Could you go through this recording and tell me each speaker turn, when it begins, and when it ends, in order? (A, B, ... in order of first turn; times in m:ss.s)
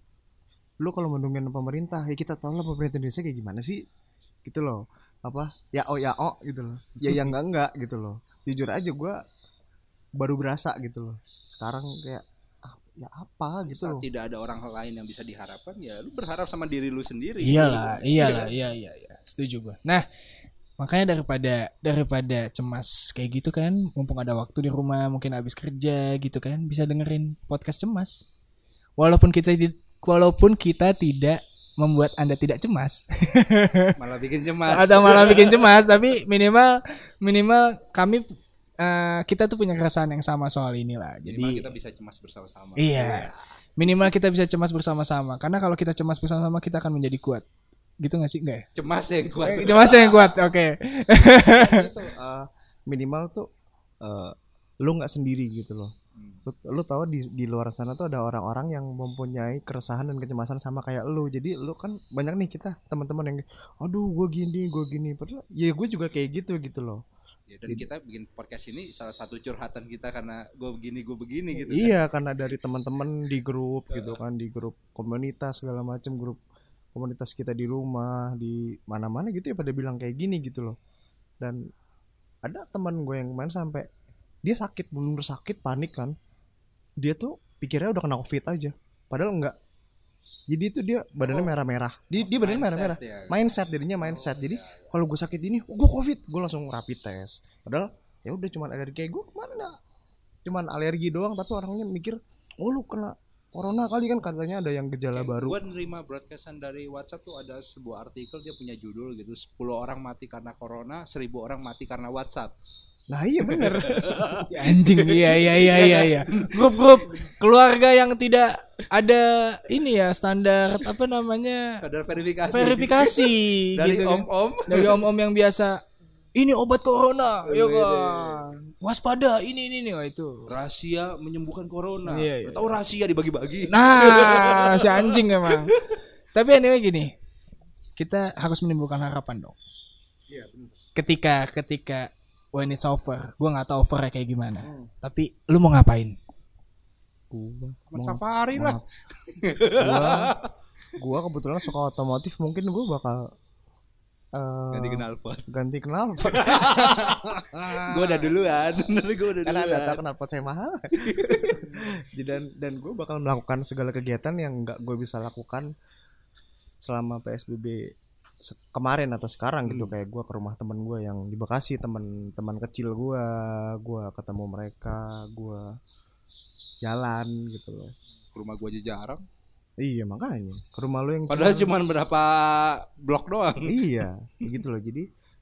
0:00.8-0:03.8 A
0:04.4-0:09.2 A
0:10.2-0:14.1 A
0:13.7-0:18.5 B
0:17.4-0:20.0 C
0:20.8-0:28.2 C
0:29.0-0:34.0 C
0:34.0-0:36.0 B
0:34.7-0:38.3 C
0:38.8-0:41.7 C
0:41.3-0:43.5 B
0:42.8-0:47.4 C
0:48.0-0:48.7 C
0:48.8-0:50.4 B
0:49.4-0:51.9 C
0:51.4-0:53.5 A
0:54.0-0:55.9 A
0:56.2-0:56.4 B
0:56.5-1:07.0 A
1:07.5-1:12.0 B
1:11.5-1:16.4 A
1:13.9-1:14.2 B
1:17.0-1:20.8 A
1:22.4-1:23.9 A
1:24.4-1:26.1 A
1:27.0-1:29.6 A
1:30.5-1:39.8 A
1:31.2-1:31.6 B
1:32.2-1:33.4 B
1:34.1-1:34.8 B
1:40.5-1:45.6 A
1:45.1-1:52.5 B
1:53.1-1:54.4 A
1:53.6-1:54.4 B
1:54.3-2:01.8 C
1:55.0-1:57.2 B
2:01.8-2:05.1 B
2:02.5-2:05.8 C
2:06.4-2:10.5 C
2:07.4-2:08.4 B
2:10.5-2:15.8 B
2:12.1-2:12.8 C
2:13.7-2:15.7 C
2:16.4-2:17.1 C
2:18.0-2:19.6 C
2:20.3-2:20.8 A
2:21.0-2:26.2 C
2:24.6-2:24.9 A
2:27.3-2:28.8 A
2:27.9-2:30.5 B
2:29.8-2:30.4 A
2:31.0-2:33.3 A
2:34.3-2:38.5 A
2:34.7-2:35.4 B
2:36.3-2:40.0 B
2:39.4-2:45.7 A
2:41.0-2:41.6 B
2:46.8-2:55.7 A
2:49.7-2:49.9 B
2:56.8-2:57.9 A
2:58.3-2:59.2 B
2:59.8-3:01.7 A
3:01.3-3:04.0 B
3:03.6-3:05.1 A